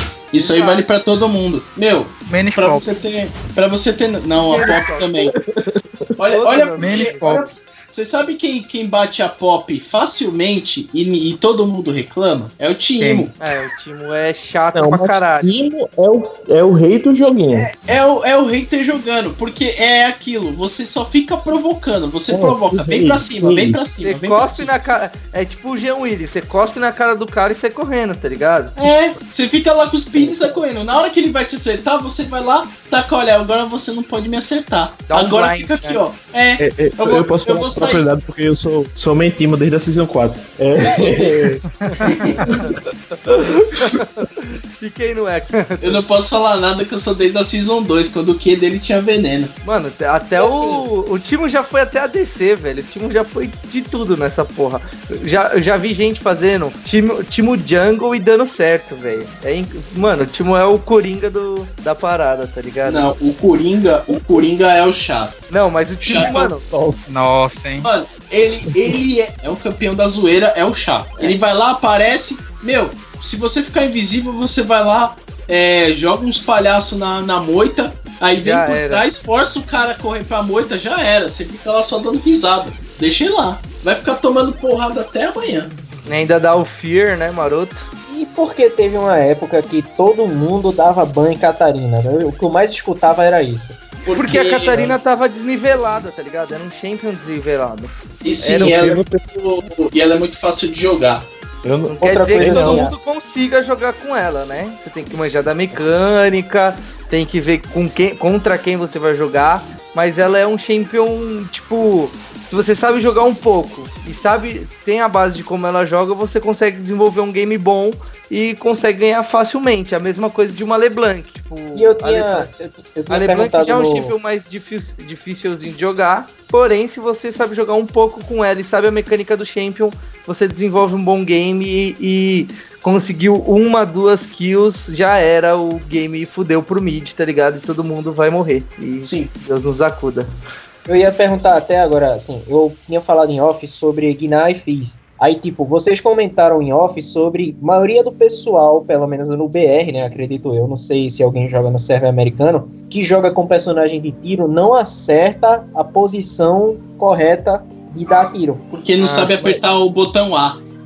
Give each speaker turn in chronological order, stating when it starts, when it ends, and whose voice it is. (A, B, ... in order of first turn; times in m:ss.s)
0:00.3-0:05.3 A
0:00.4-0:00.8 B
0:02.3-0:02.9 C
0:04.5-0:05.1 B
0:05.3-0:06.1 D
0:06.2-0:13.3 A
0:06.3-0:07.4 B
0:06.8-0:07.6 C
0:13.0-0:13.3 C
0:13.4-0:15.5 B
0:14.7-0:17.7 D
0:17.5-0:24.7 A
0:22.3-0:23.8 D
0:24.0-0:28.7 B
0:28.8-0:38.0 A
0:30.2-0:30.6 D
0:35.1-0:36.0 B
0:36.6-0:41.6 D
0:40.8-0:41.4 A
0:41.7-0:42.4 C
0:42.0-0:42.5 A
0:42.7-0:46.0 B
0:45.8-0:49.5 A
0:49.6-1:03.2 B
0:50.4-0:50.7 E
1:02.9-1:05.4 A
1:04.2-1:04.4 D
1:05.5-1:06.7 B
1:06.0-1:06.5 A
1:06.7-1:07.0 D
1:07.1-1:07.9 C
1:07.8-1:25.7 A
1:18.4-1:19.0 B
1:26.1-1:27.9 B
1:28.1-1:33.8 E
1:34.1-1:35.0 A
1:34.1-1:38.8 B
1:38.2-1:41.3 A
1:38.6-1:39.2 D
1:41.6-1:42.9 D
1:41.9-2:02.5 B
1:42.1-1:42.9 E
2:01.8-2:04.1 E
2:03.1-2:20.3 B
2:19.0-2:19.3 A
2:20.9-2:38.7 E
2:38.7-2:40.6 A
2:39.0-2:39.6 B